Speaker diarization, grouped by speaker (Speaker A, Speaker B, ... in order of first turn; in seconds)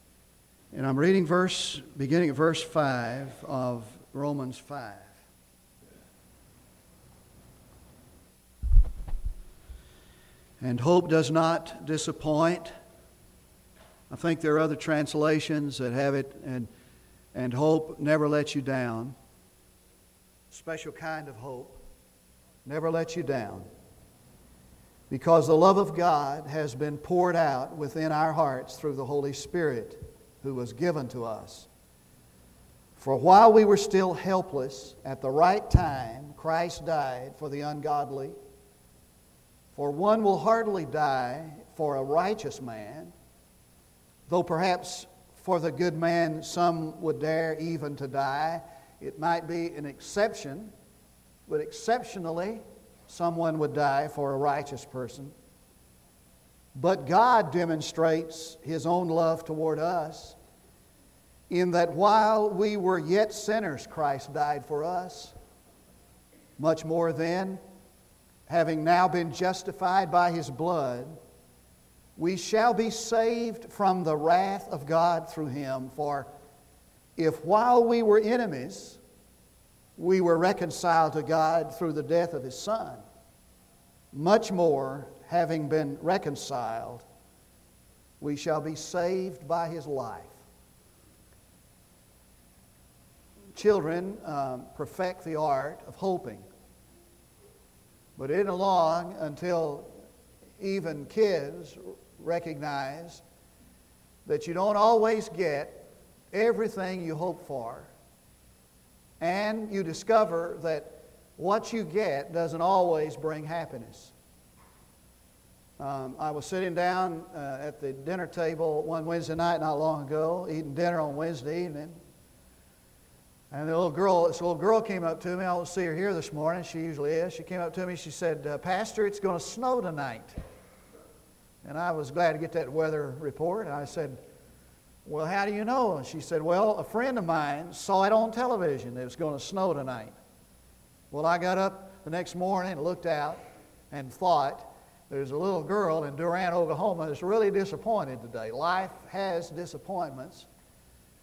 Speaker A: 0.7-5.2, 10.6-12.7, 14.1-16.7, 17.3-19.1, 20.5-21.8, 22.6-23.6, 25.1-31.7, 33.0-38.4, 39.7-43.1, 44.3-50.7, 51.5-55.3, 56.8-60.4, 61.5-65.3, 66.6-67.6, 68.5-71.2, 72.2-76.3, 77.2-79.0, 80.0-83.0, 84.1-87.0, 88.2-90.4, 93.5-96.5, 98.2-99.9, 100.6-103.2, 104.2-107.9, 109.2-114.1, 115.8-122.0, 123.5-130.4, 131.6-134.2, 135.1-140.2, 141.1-143.4, 143.9-150.5